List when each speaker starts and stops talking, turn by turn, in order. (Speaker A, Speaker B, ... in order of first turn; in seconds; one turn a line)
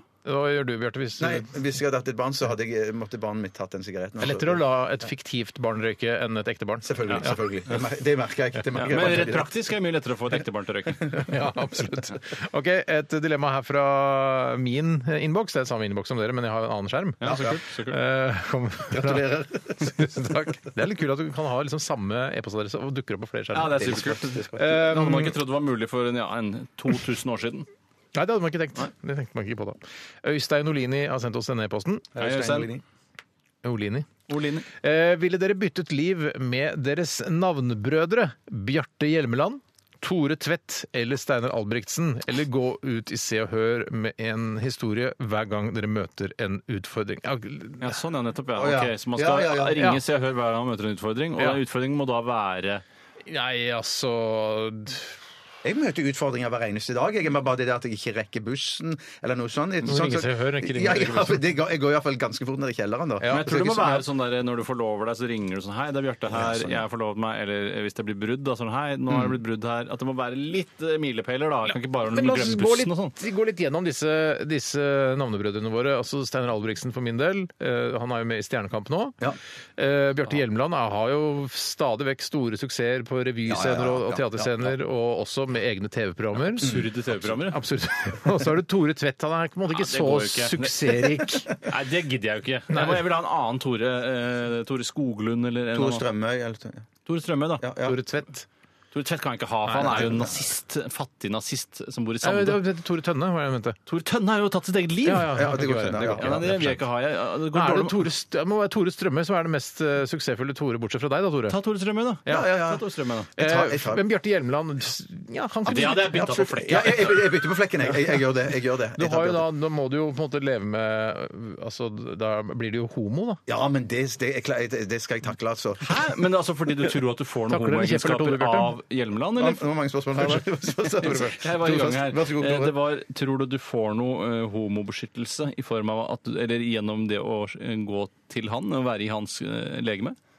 Speaker A: 0.2-1.5
Speaker B: 1.2-4.6
Speaker A: 4.2-7.3
Speaker B: 6.8-9.5
Speaker C: 8.7-11.2
Speaker A: 11.2-25.4
Speaker C: 17.2-18.0
Speaker B: 17.2-17.5
Speaker B: 18.9-20.4
Speaker C: 23.5-27.7
Speaker B: 23.8-24.6
Speaker A: 28.1-32.1
Speaker B: 32.1-32.8
Speaker C: 32.2-32.7
Speaker A: 33.6-34.1
Speaker C: 34.3-34.7
Speaker A: 34.7-48.0
Speaker C: 47.8-52.8
Speaker B: 48.5-49.9
Speaker A: 53.2-55.2
Speaker B: 55.6-64.0
Speaker A: 59.8-61.5
Speaker A: 63.2-64.0
Speaker C: 63.3-73.2
Speaker B: 66.3-66.8
Speaker A: 71.9-79.2
Speaker A: 79.8-91.5
Speaker B: 83.5-84.7
Speaker C: 86.5-87.6
Speaker C: 89.7-91.0
Speaker C: 91.6-96.0
Speaker A: 92.7-93.1
Speaker B: 95.7-96.8
Speaker C: 97.0-97.6
Speaker B: 97.6-98.0
Speaker A: 97.8-98.5
Speaker C: 98.9-102.6
Speaker A: 99.7-100.2
Speaker A: 102.2-103.8
Speaker C: 103.9-105.4
Speaker A: 105.0-106.8
Speaker B: 105.3-106.4
Speaker C: 106.2-108.1
Speaker A: 107.5-111.6
Speaker C: 111.5-113.3
Speaker B: 112.3-112.8
Speaker B: 113.3-114.0
Speaker A: 113.4-117.0
Speaker C: 115.7-117.2
Speaker B: 115.8-119.5
Speaker A: 119.0-123.4
Speaker B: 123.5-125.9
Speaker C: 125.8-129.6
Speaker A: 127.5-128.8
Speaker B: 129.3-132.7
Speaker C: 130.2-130.4
Speaker C: 131.0-140.2